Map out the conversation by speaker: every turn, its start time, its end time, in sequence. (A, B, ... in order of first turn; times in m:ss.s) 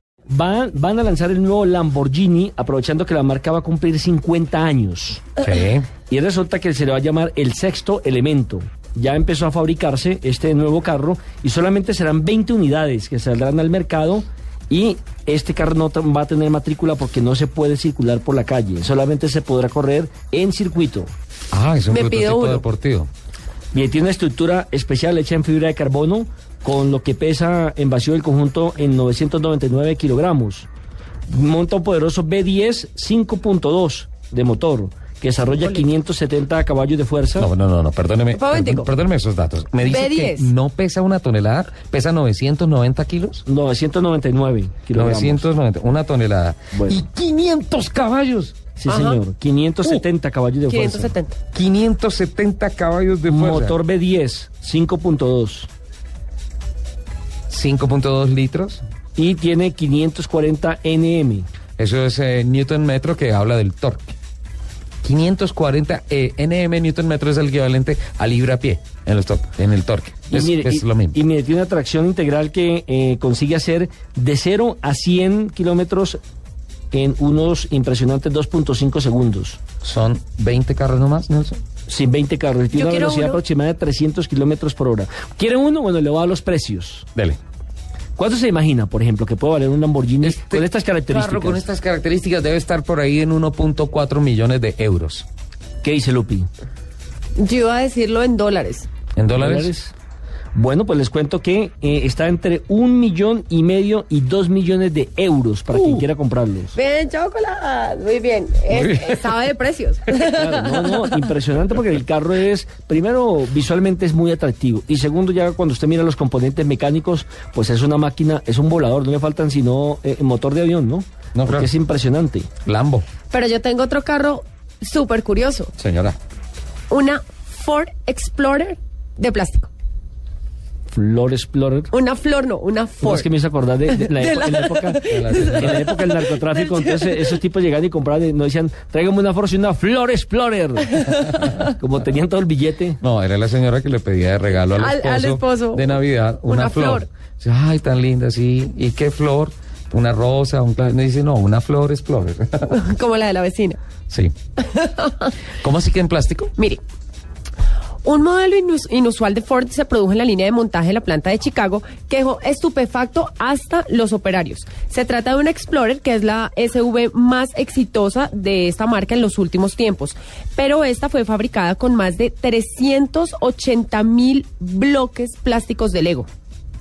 0:00.3-0:05.3 A
0:05.4-0:05.9 B
0:06.0-0:21.1 A
0:21.5-0:23.1 B
0:21.9-0:22.6 C
0:23.7-0:30.7 A
0:31.3-0:37.5 A
0:37.4-0:43.4 B
0:38.3-0:38.9 C
0:39.8-0:40.5 C
0:43.4-0:45.5 A
0:44.9-0:48.6 B
0:46.7-0:47.0 A
0:48.8-0:51.1 A
0:48.9-0:49.2 C
0:50.7-0:51.4 C
0:51.5-0:53.8 B
0:53.3-0:55.7 A
0:57.5-0:58.8 B
0:59.2-1:01.5 A
1:01.8-1:04.2 B
1:05.0-1:11.2 B
1:10.3-1:16.2 A
1:16.9-1:19.6 A
1:19.8-1:21.6 B
1:21.9-1:27.1 A
1:22.7-1:23.4 C
1:28.2-1:31.7 A
1:30.2-1:35.3 B
1:35.8-1:36.5 A
1:37.4-1:38.9 C
1:39.2-1:39.7 B
1:39.3-1:39.9 A
1:40.5-1:46.8 A
1:45.7-1:46.0 C
1:46.8-1:51.2 C
1:48.7-1:49.3 B
1:50.2-2:02.5 A
2:01.4-2:01.7 B
2:02.6-2:03.1 B
2:03.3-2:05.7 C
2:05.8-2:06.2 B
2:06.9-2:09.7 C
2:10.9-2:11.9 A
2:11.9-2:13.3 C
2:13.0-2:23.0 A
2:13.9-2:17.4 C
2:15.1-2:15.8 B
2:20.9-2:21.6 C
2:23.0-2:32.7 B
2:24.7-2:27.1 C
2:32.7-2:33.8 C
2:34.6-2:35.2 C
2:35.6-2:36.5 B
2:38.0-2:56.3 C